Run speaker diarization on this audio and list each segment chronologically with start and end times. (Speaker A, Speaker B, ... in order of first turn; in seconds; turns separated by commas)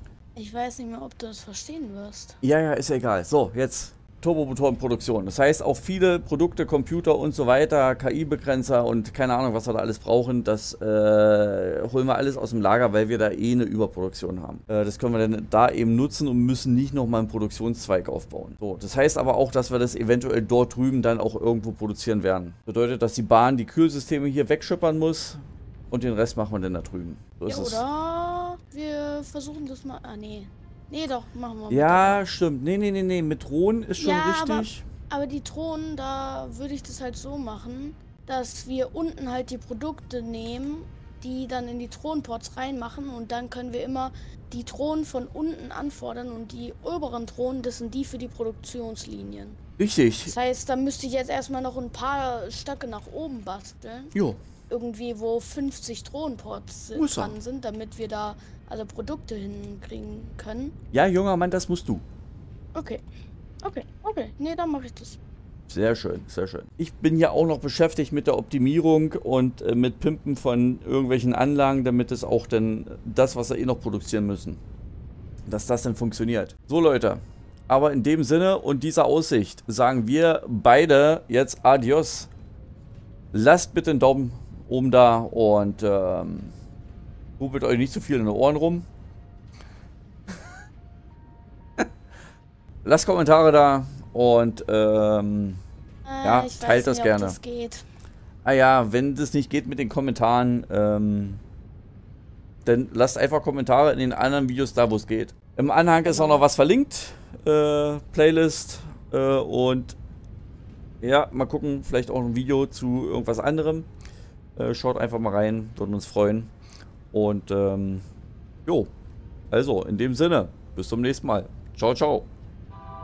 Speaker A: 0.3-2.4, Speaker B: 2.4-27.8, Speaker A: 27.5-32.2, Speaker B: 31.7-34.8, Speaker A: 34.0-49.6, Speaker B: 49.8-50.3, Speaker A: 50.2-54.1, Speaker B: 54.1-54.4, Speaker A: 54.7-60.7, Speaker B: 56.9-57.4, Speaker B: 60.9-62.0, Speaker A: 62.7-63.0, Speaker A: 63.6-65.2, Speaker B: 65.7-74.6, Speaker B: 75.5-82.3, Speaker B: 83.3-86.5, Speaker B: 87.4-88.9, Speaker B: 92.8-95.6, Speaker A: 96.0-97.8, Speaker B: 96.2-97.4, Speaker B: 98.4-101.4, Speaker B: 102.6-110.0, Speaker A: 106.0-106.5, Speaker B: 111.0-113.9, Speaker B: 114.5-116.5, Speaker B: 117.1-118.0, Speaker B: 119.5-122.3